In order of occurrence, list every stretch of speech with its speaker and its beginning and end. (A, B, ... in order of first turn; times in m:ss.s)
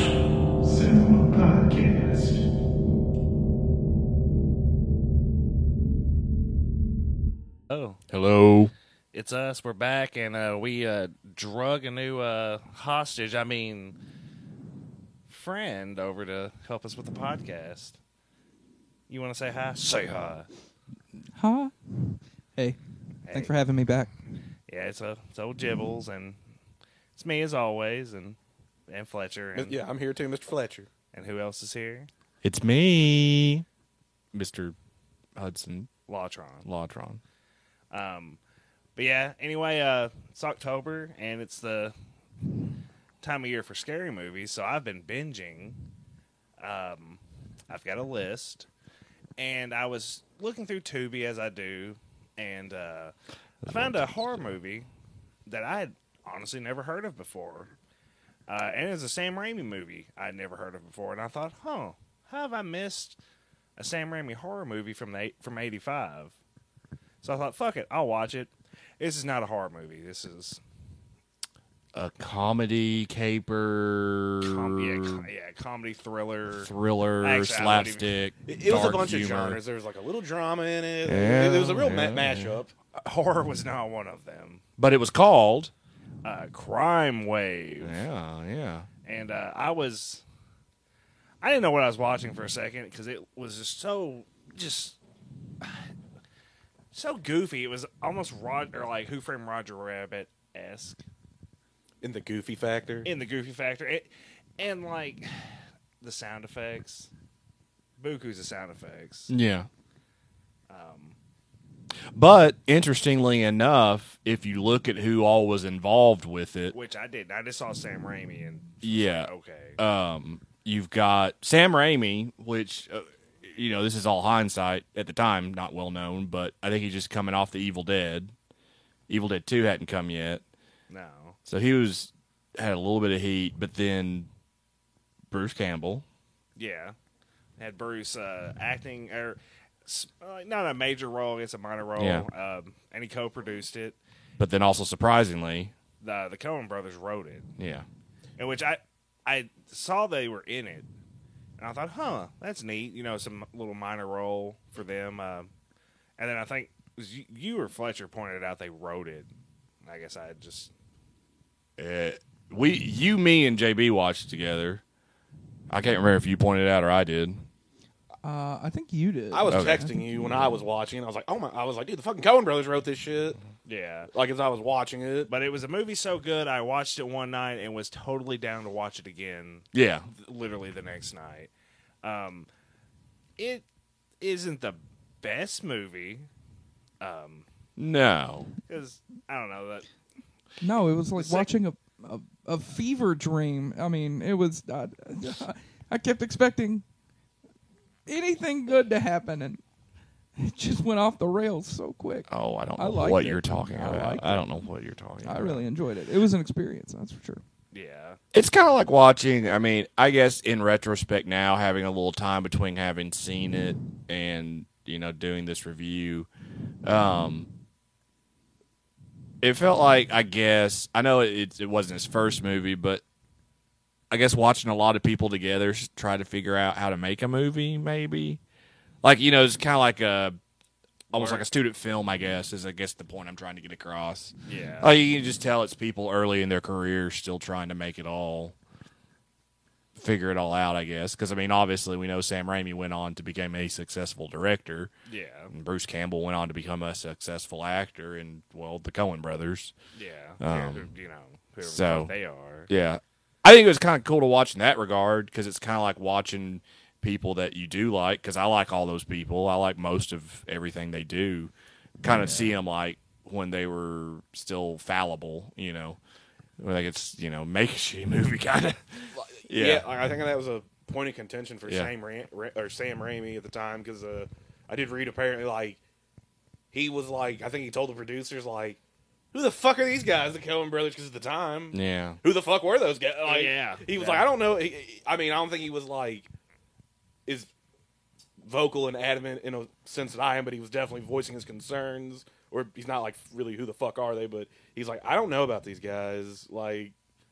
0:00.6-0:02.4 A
0:07.7-0:08.0 B
0:08.1-0:08.7 A
0:09.1-0:14.0 B
0:15.3-0:18.0 B
0:19.1-0:20.5 B
0:21.3-0:22.8 C
0:23.2-0:23.5 B
0:23.3-0:24.1 C
0:24.7-0:26.4 B
0:27.2-0:28.4 B
0:28.9-0:29.8 B
0:29.6-0:30.9 D
0:31.1-0:32.1 B
0:32.4-0:33.7 A
0:34.3-0:34.8 A
0:35.4-0:35.9 A
0:36.1-0:36.7 B
0:36.6-0:37.2 A
0:37.9-0:38.4 B
0:39.0-0:41.9 B
0:43.2-0:45.8 B
0:46.6-0:48.7 B
0:49.4-0:53.1 B
0:53.6-0:54.4 A
0:53.7-0:54.9 B
0:55.5-0:57.7 B
0:58.5-1:03.2 B
1:03.8-1:06.4 B
1:07.2-1:10.6 B
1:11.9-1:15.3 A
1:14.4-1:16.7 B
1:16.6-1:19.6 A
1:17.2-1:18.1 B
1:18.5-1:22.7 D
1:21.0-1:22.6 A
1:23.0-1:24.6 B
1:24.8-1:25.7 A
1:26.2-1:28.0 B
1:27.8-1:28.9 A
1:29.0-1:30.2 B
1:31.4-1:35.0 B
1:35.6-1:35.9 B
1:36.9-1:41.0 B
1:42.0-1:43.1 D
1:43.0-1:47.1 B
1:48.0-1:49.3 B
1:49.3-1:49.7 A
1:50.7-1:51.2 B
1:52.1-1:56.8 A
1:56.7-1:59.8 B
1:58.8-2:08.3 A
2:09.1-2:10.4 A
2:10.9-2:11.4 B
2:11.5-2:14.3 A
2:15.3-2:16.0 A
2:16.6-2:17.0 B
2:17.6-2:24.0 B
2:22.0-2:22.3 A
2:24.4-2:25.7 A
2:26.0-2:27.5 B
2:27.6-2:27.9 A
2:28.4-2:30.9 B
2:31.6-2:35.5 B
2:36.2-2:39.3 B
2:39.8-2:40.7 B
2:41.8-2:44.8 A
2:45.7-2:47.4 A
2:48.2-2:50.0 C
2:49.3-2:53.4 D
2:49.5-2:49.8 A
2:53.6-2:54.1 B
2:54.1-2:55.3 D
2:55.3-3:01.5 B
2:59.7-3:00.1 A
3:02.0-3:02.5 B
3:03.4-3:03.7 B
3:04.2-3:06.3 B
3:07.0-3:07.4 B
3:07.8-3:08.5 A
3:08.7-3:09.9 B
3:10.6-3:16.8 C
3:11.2-3:11.5 B
3:18.1-3:19.6 C
3:20.4-3:24.7 C
3:22.3-3:25.6 A
3:25.2-3:27.4 C
3:27.7-3:28.2 B
3:28.3-3:36.3 A
3:36.8-3:37.5 A
3:39.4-3:43.0 A
3:44.1-3:48.4 A
3:49.0-3:50.4 A
3:51.1-3:51.5 B
3:51.1-3:58.6 A
3:54.5-3:54.9 B
4:00.0-4:04.9 A
4:05.1-4:05.5 B
4:05.5-4:09.7 A
4:09.9-4:12.7 B
4:10.4-4:10.9 A
4:11.6-4:12.2 A
4:12.7-4:26.0 A
4:26.6-4:29.9 A
4:29.2-4:35.8 D
4:31.6-4:31.9 A
4:36.7-4:38.8 D
4:39.3-4:46.3 D
4:41.7-4:42.2 A
4:43.2-4:44.3 B
4:48.4-4:57.0 D